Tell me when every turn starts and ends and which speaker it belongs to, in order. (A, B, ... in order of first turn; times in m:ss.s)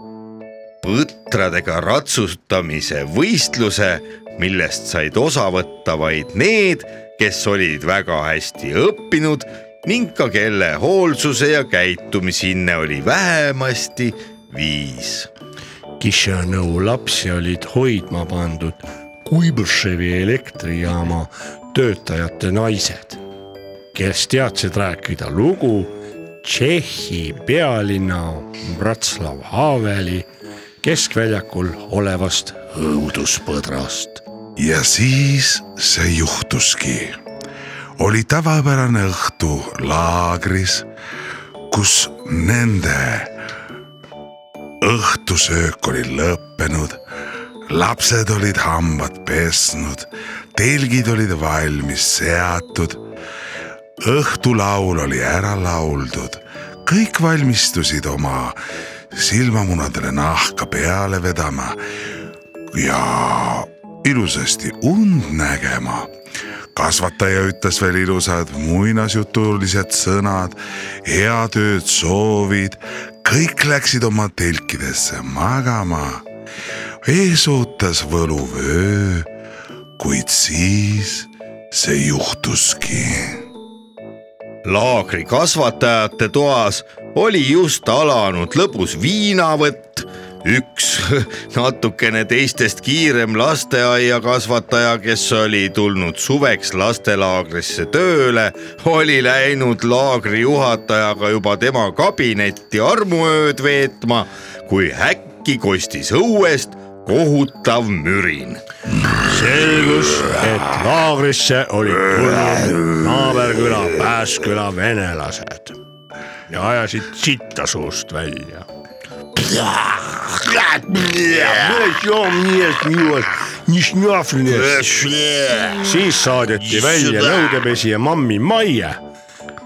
0:00.8-0:15.3 A
0:16.0-0:23.2 B
0:23.9-0:30.3 B
0:30.8-0:34.2 B
0:34.6-0:37.2 C
0:38.0-0:40.9 C
0:41.7-0:43.3 C
0:44.8-0:47.0 C
0:47.7-0:53.0 C
0:54.0-0:58.6 C
0:59.1-1:01.8 C
1:02.7-1:06.1 C
1:06.8-1:16.2 C
1:17.0-1:19.3 C
1:20.0-1:23.4 C
1:24.6-1:48.6 A
1:49.2-1:55.8 B
1:56.5-1:58.7 B
1:59.7-2:04.9 B
2:04.6-2:05.8 A
2:05.8-2:09.0 B
2:07.0-2:07.3 A